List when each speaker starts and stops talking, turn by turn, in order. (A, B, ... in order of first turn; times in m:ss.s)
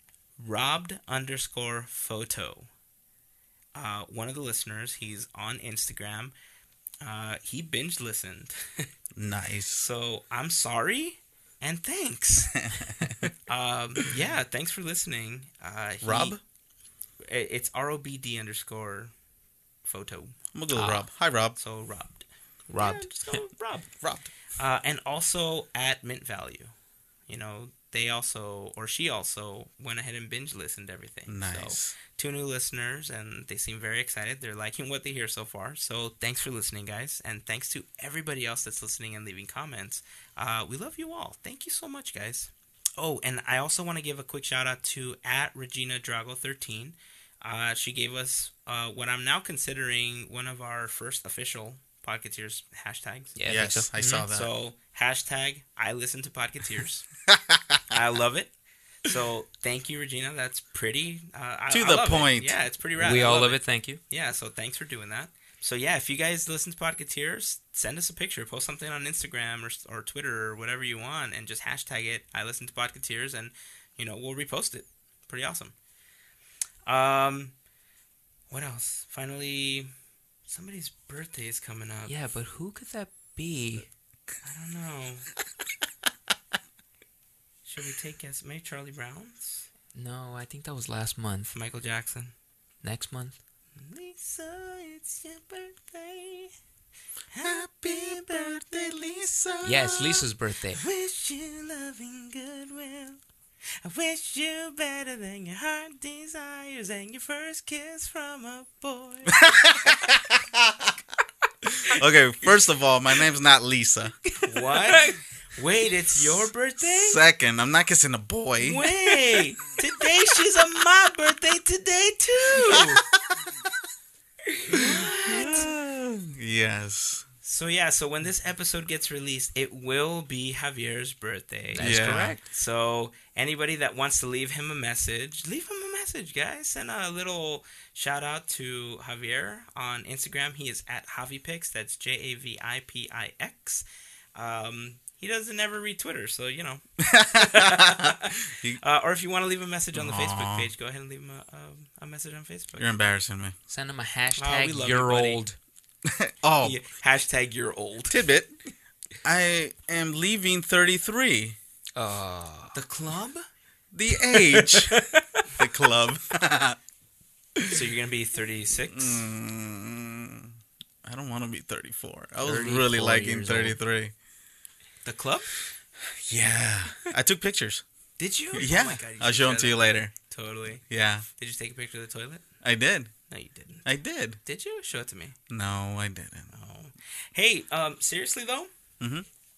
0:00.4-0:02.7 A
0:03.7-0:06.3 A
0:07.0-0:08.9 A
0:09.1-0:09.9 B
0:09.7-0:12.6 A
0:12.6-0:13.3 B
0:13.5-0:16.4 A
0:16.0-0:16.4 B
0:17.3-0:19.1 A
0:19.8-0:20.4 A
0:20.5-0:21.6 B
0:20.7-0:21.0 C
0:21.6-0:23.9 A
0:22.7-0:23.4 C
0:24.0-0:24.3 B
0:24.5-0:26.7 A
0:27.3-0:53.4 A
0:31.3-0:32.0 B
0:53.4-0:54.2 C
0:53.5-0:54.5 B
0:54.3-0:57.1 A
0:57.3-0:57.8 B
0:57.9-1:15.7 A
1:01.7-1:02.6 B
1:03.0-1:04.0 C
1:16.8-1:17.6 A
1:18.5-1:19.9 A
1:20.5-1:22.1 A
1:22.1-1:23.9 C
1:24.4-1:25.3 A
1:27.6-1:29.7 A
1:29.9-1:31.5 C
1:31.5-1:32.3 A
1:32.8-1:33.4 C
1:33.8-1:36.5 A
1:37.3-1:40.2 A
1:37.4-1:40.1 B
1:39.6-1:40.8 C
1:40.8-1:43.2 A
1:43.8-1:49.4 A
1:49.3-1:50.9 B
1:51.8-1:54.2 B
1:54.3-1:55.2 C
1:54.4-1:57.2 A
1:57.0-1:58.9 B
1:58.6-2:03.0 A
2:02.6-2:03.7 B
2:04.7-2:05.7 A
2:04.9-2:07.2 B
2:07.4-2:32.9 A
2:11.7-2:12.4 C
2:11.8-2:12.4 B
2:27.0-2:28.8 B
2:29.9-2:30.7 B
2:32.8-2:33.5 B
2:33.7-2:35.6 C
2:34.4-2:35.4 A
2:36.0-2:36.8 B
2:36.6-2:38.2 A
2:38.1-2:38.5 B
2:39.2-2:41.6 B
2:41.9-2:42.7 C
2:42.7-2:43.4 A
2:43.9-2:45.0 B
2:44.5-2:45.0 A
2:45.5-2:46.8 B
2:47.7-2:49.2 A
2:48.9-2:50.5 B
2:51.0-2:54.1 B
2:52.4-2:53.8 C
2:55.0-2:55.5 A
2:56.1-2:57.8 B
2:58.2-3:00.8 A
2:58.5-3:00.1 B
3:00.9-3:01.2 B
3:01.4-3:02.4 A
3:02.6-3:03.1 B
3:03.3-3:03.9 A
3:03.8-3:04.4 B
3:04.4-3:05.4 A
3:05.5-3:06.5 B
3:06.5-3:08.7 A
3:09.0-3:09.2 B